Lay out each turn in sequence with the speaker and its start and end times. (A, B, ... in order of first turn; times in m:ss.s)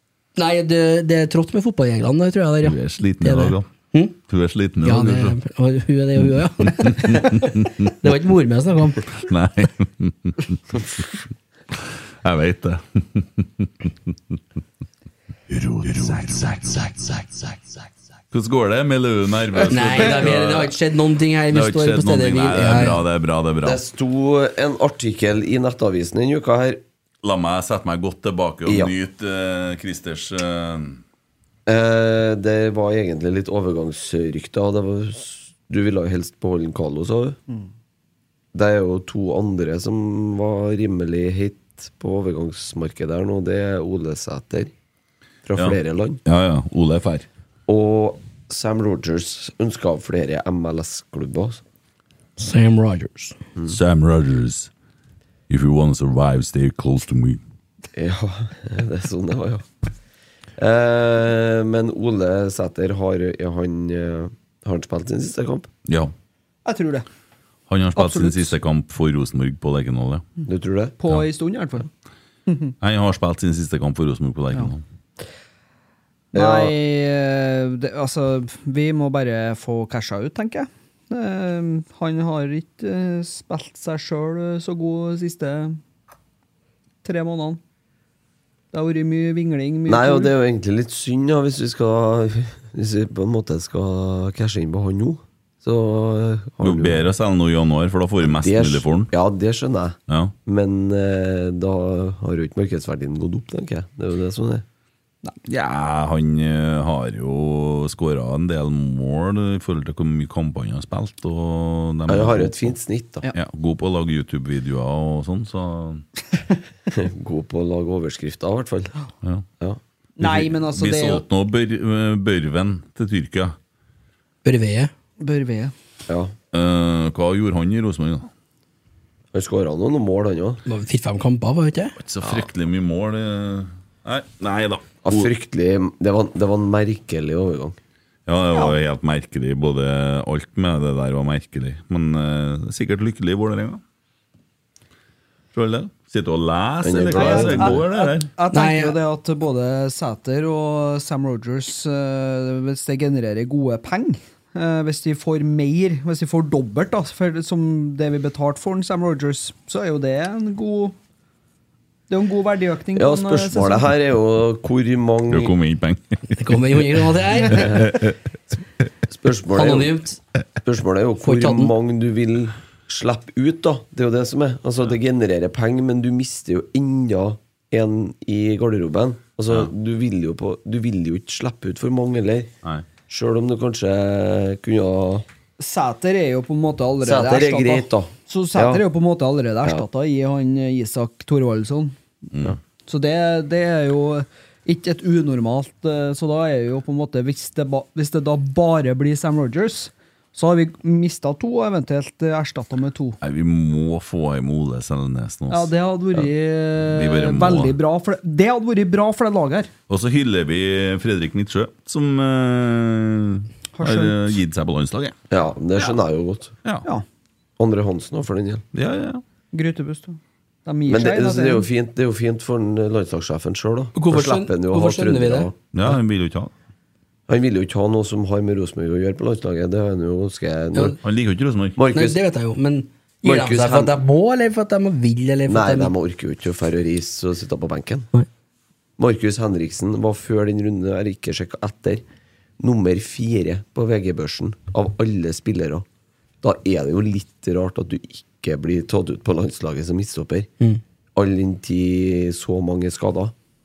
0:00.4-0:04.1 A
0:02.6-0:03.7 B
0:04.3-0:05.4 B
0:04.8-0:09.1 A
0:06.6-0:07.9 B
0:09.1-0:10.6 B
0:11.7-0:14.1 B
0:15.5-0:17.4 B
0:18.3-0:20.7 B
0:19.7-0:23.0 A
0:21.5-0:23.8 B
0:23.6-0:26.8 C
0:27.2-0:31.0 B
0:28.6-0:28.9 C
0:31.6-0:37.4 C
0:38.5-0:44.7 C
0:45.4-0:46.2 C
0:45.6-0:47.3 B
0:47.7-0:51.6 C
0:52.4-0:53.4 A
0:53.7-0:54.7 B
0:55.5-0:57.4 B
0:57.9-0:59.6 C
1:00.6-1:05.7 C
1:05.8-1:06.1 B
1:06.6-1:07.0 D
1:07.7-1:10.2 B
1:08.0-1:08.5 D
1:10.5-1:10.9 C
1:11.0-1:11.9 D
1:12.5-1:12.7 D
1:12.8-1:14.8 B
1:16.3-1:16.7 C
1:16.3-1:25.8 D
1:27.0-1:27.6 D
1:28.7-1:30.3 D
1:29.8-1:37.1 C
1:36.6-1:39.1 B
1:38.2-1:44.6 C
1:40.1-1:40.3 B
1:45.5-1:52.7 B
1:52.1-1:53.3 C
1:53.3-1:56.0 B
1:56.9-1:58.9 C
2:00.2-2:01.2 D
2:00.2-2:03.6 B
2:04.4-2:04.9 A
2:05.2-2:05.7 D
2:06.1-2:06.3 C
2:06.5-2:08.3 B
2:09.3-2:10.6 C
2:10.6-2:11.9 A
2:12.0-2:15.3 B
2:15.0-2:17.8 C
2:18.3-2:23.8 B
2:25.5-2:28.3 B
2:26.8-2:27.8 C
2:27.1-2:41.0 D
2:28.5-2:29.0 A
2:42.1-2:43.9 D
2:42.9-2:45.5 C
2:45.3-2:46.5 B
2:46.3-2:48.0 A
2:47.5-2:48.1 B
2:49.1-2:50.0 C
2:49.5-2:50.2 A
2:50.6-3:02.5 C
2:51.2-2:51.7 A
3:03.1-3:05.2 C
3:05.6-3:12.0 D
3:07.0-3:08.8 C
3:12.9-3:23.2 D
3:23.2-3:27.8 B
3:25.5-3:29.7 D
3:29.9-3:35.2 B
3:33.8-3:34.4 D
3:35.3-3:36.5 C
3:37.6-3:38.6 C
3:38.7-3:39.2 B
3:39.5-3:41.6 D
3:40.9-3:45.6 C
3:43.9-3:45.5 A
3:45.7-3:46.5 B
3:47.3-3:51.0 C
3:51.0-3:51.8 B
3:51.8-3:52.2 C
3:51.9-3:55.9 A
3:53.2-3:54.0 C
3:55.5-3:58.1 C
3:59.0-4:02.0 C
4:02.6-4:05.8 C
4:06.4-4:10.5 C
4:11.1-4:13.3 C